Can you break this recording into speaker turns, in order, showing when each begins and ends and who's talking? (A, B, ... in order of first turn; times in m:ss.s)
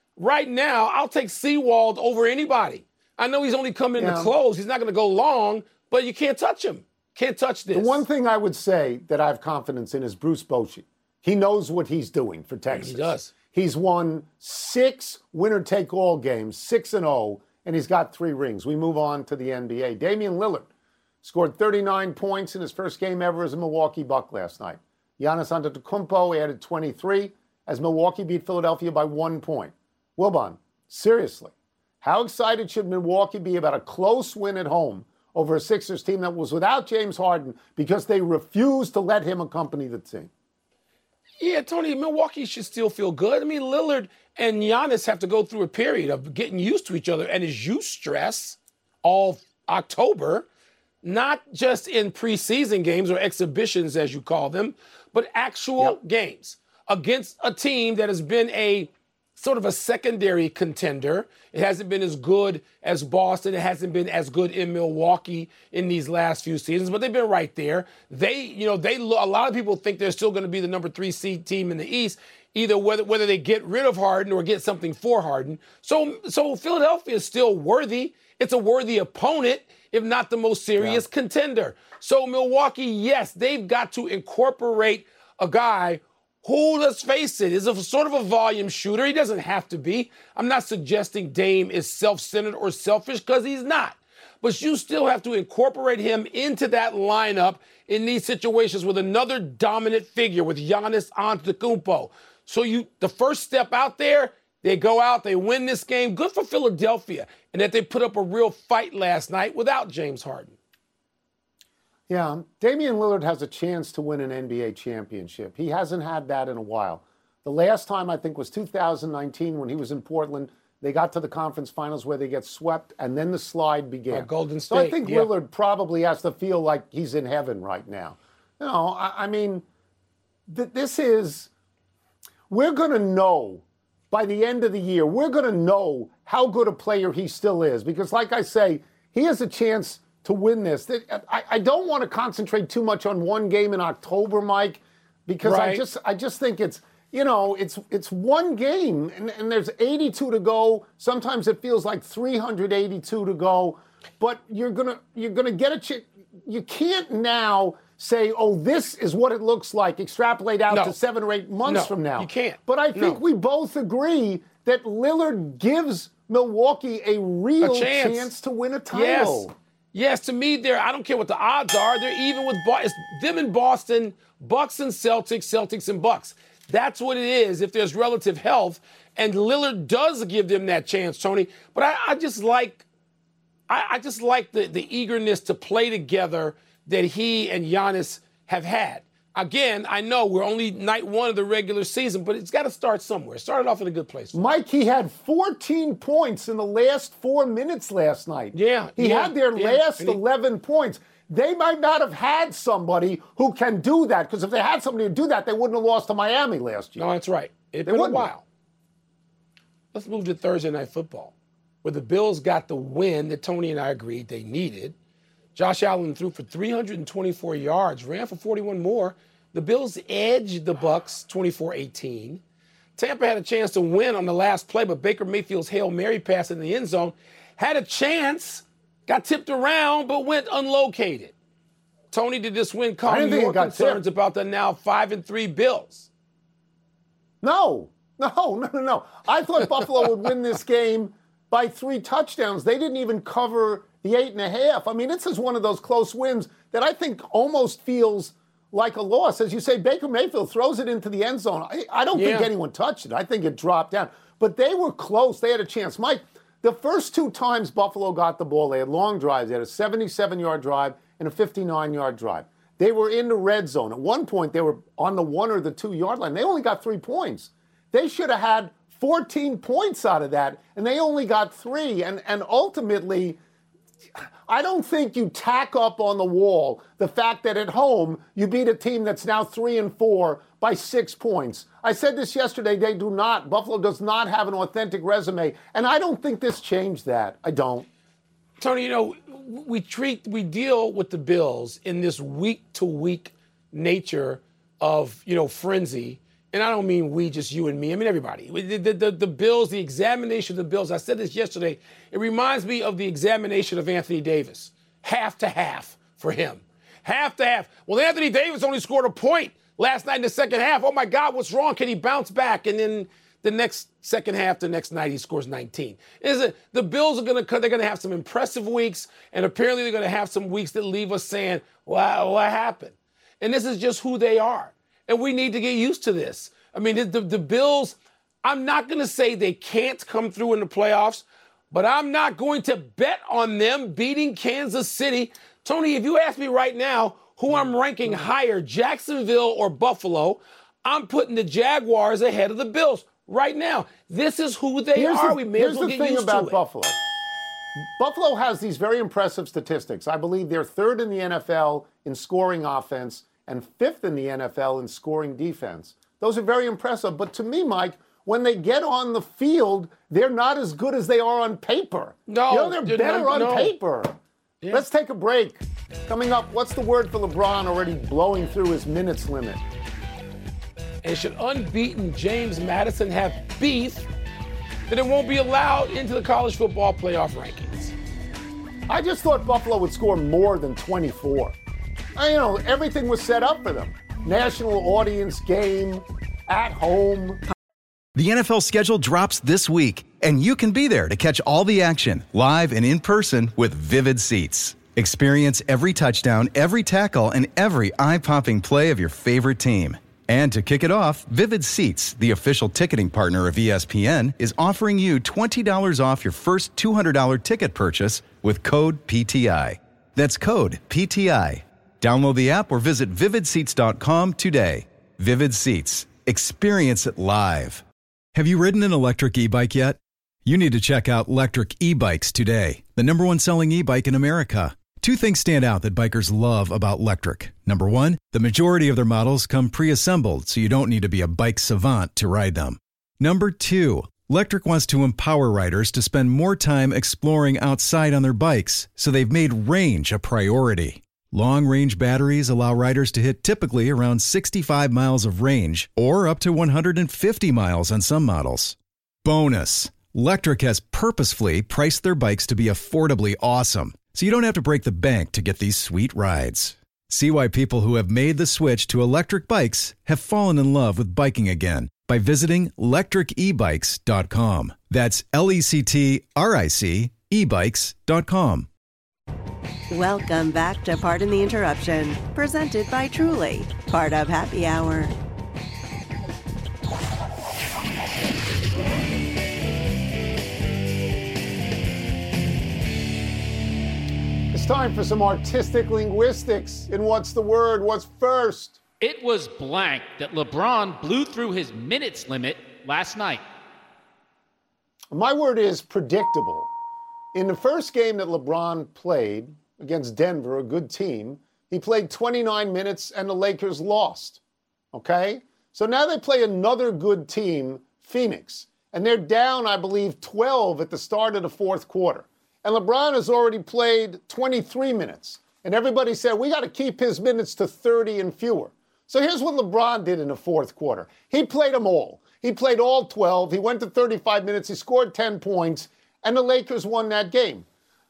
0:00.2-0:08.0 A
0:04.0-0:04.3 B
0:07.7-0:20.7 B
0:12.7-0:13.3 A
0:21.2-0:40.3 B
0:41.4-0:50.5 A
0:51.0-1:50.6 A
1:20.8-1:21.0 B
1:52.1-2:09.6 B
2:04.1-2:05.3 A
2:10.5-2:11.5 B
2:12.5-2:49.5 B
2:25.4-2:25.8 A
2:40.7-2:41.0 A
2:41.6-2:43.2 A
2:47.6-2:48.3 A
2:48.9-3:02.8 A
3:03.7-3:14.4 A
3:14.3-3:27.1 B
3:18.5-3:20.2 A
3:27.0-3:28.4 A
3:27.8-3:28.3 B
3:29.9-3:34.9 A
3:35.6-3:42.4 A
3:43.0-3:51.3 A
3:52.1-3:56.1 A
3:53.0-3:54.0 B
3:57.4-4:33.4 B
4:12.1-4:12.5 A
4:34.5-4:47.9 B
4:48.6-5:46.6 A
5:44.9-5:47.0 B
5:47.8-6:04.2 B
6:02.3-6:03.7 A
6:04.7-6:09.6 B
6:11.0-6:14.1 A
6:14.9-6:17.9 A
6:18.9-6:21.6 B
6:22.2-6:27.4 B
6:28.2-6:57.8 C
6:58.3-7:48.7 C
7:49.9-7:55.1 D
8:04.5-8:08.8 B
8:09.0-8:13.4 E
8:15.1-8:16.7 B
8:17.3-8:24.4 B
8:24.9-8:47.6 B